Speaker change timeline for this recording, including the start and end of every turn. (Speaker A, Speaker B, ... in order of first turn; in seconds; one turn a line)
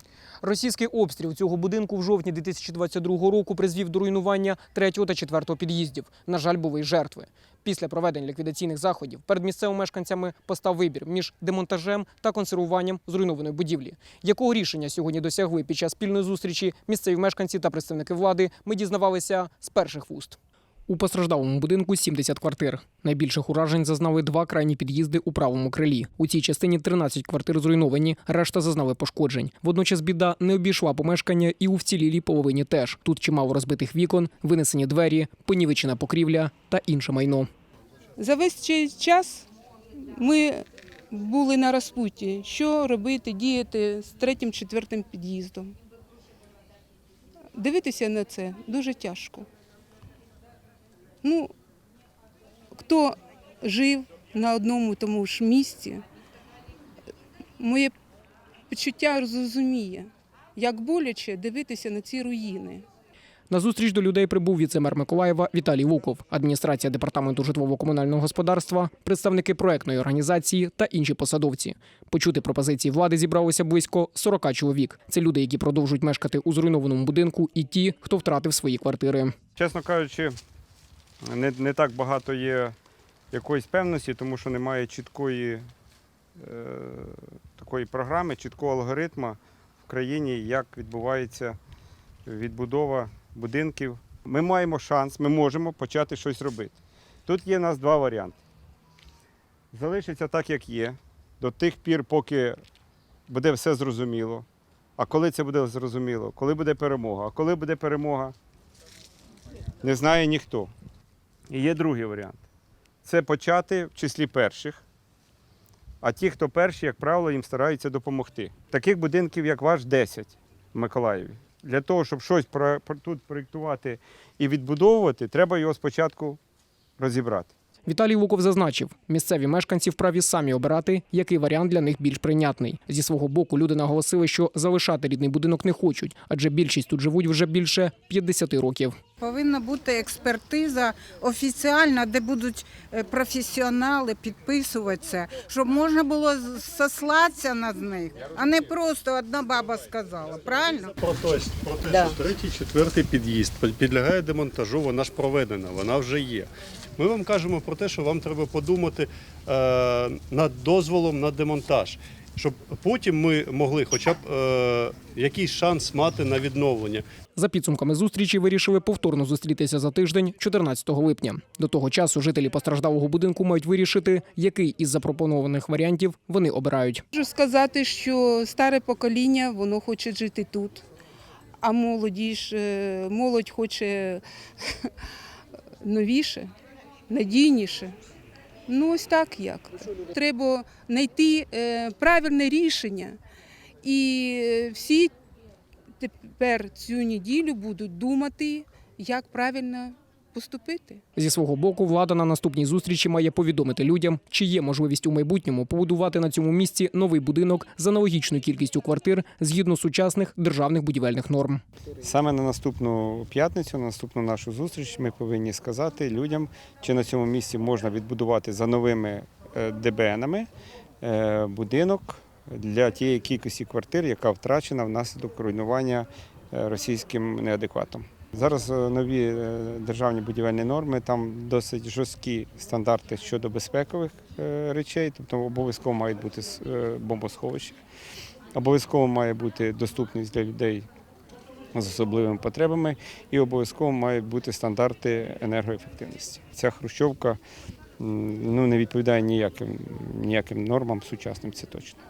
Speaker A: 0.4-37.5
Speaker B: 38.2-45.7
Speaker B: 47.5-49.5
Speaker B: 51.2-51.5
Speaker B: 52.7-56.0
Speaker B: 57.6-57.9
Speaker B: 58.7-62.8
Speaker A: 63.5-79.3
Speaker C: 79.5-80.3
Speaker C: 81.2-82.8
Speaker C: 83.3-85.7
Speaker C: 86.4-91.6
Speaker C: 92.2-98.4
Speaker C: 99.7-102.6
Speaker C: 103.3-104.5
Speaker C: 105.0-108.3
Speaker C: 109.8-110.7
Speaker C: 111.5-112.4
Speaker C: 113.0-114.8
Speaker C: 116.0-126.4
Speaker C: 127.0-127.5
Speaker A: 127.8-138.9
Speaker D: 139.2-150.9
Speaker E: 151.0-167.0
Speaker A: 167.3-177.0
Speaker B: 177.1-180.8
Speaker B: 181.6-184.9
Speaker B: 185.8-186.5
Speaker B: 187.1-187.9
Speaker B: 188.7-193.2
Speaker B: 193.8-195.1
Speaker B: 196.0-201.0
Speaker A: 201.2-211.6
Speaker C: 212.0-220.5
Speaker C: 221.0-237.8
Speaker C: 238.5-240.8
Speaker C: 241.7-247.4
Speaker C: 248.0-252.0